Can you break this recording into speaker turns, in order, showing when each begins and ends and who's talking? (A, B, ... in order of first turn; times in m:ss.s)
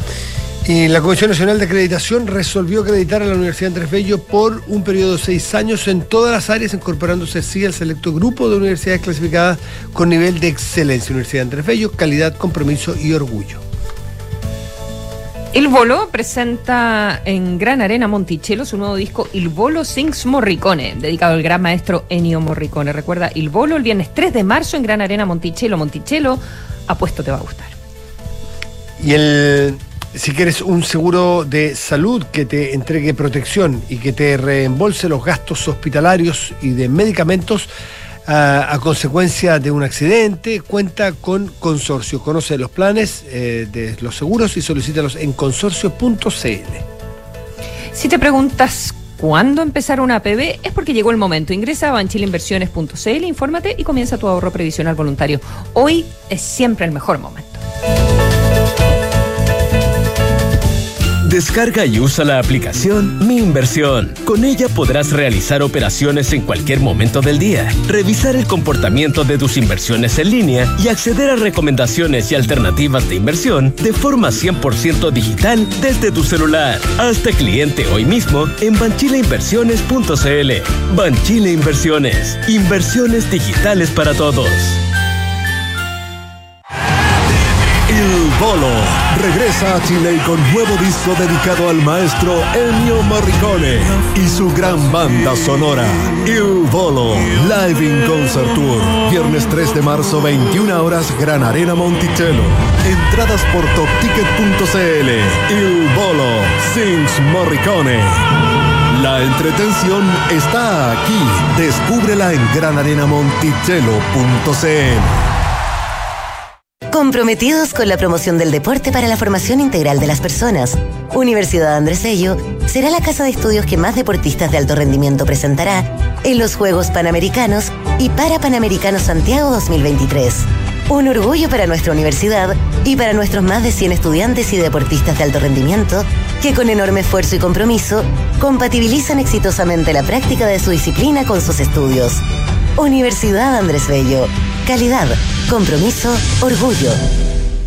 0:00.6-0:13.6 A
0:15.5-0:27.8 B
0:29.0-0:37.7 A
0:38.2-0:46.8 A
0:47.9-0:57.6 B
1:01.2-1:24.8 C
1:27.9-1:48.2 D
1:48.9-1:55.0 D
1:56.9-2:22.2 E
2:22.8-2:27.0 E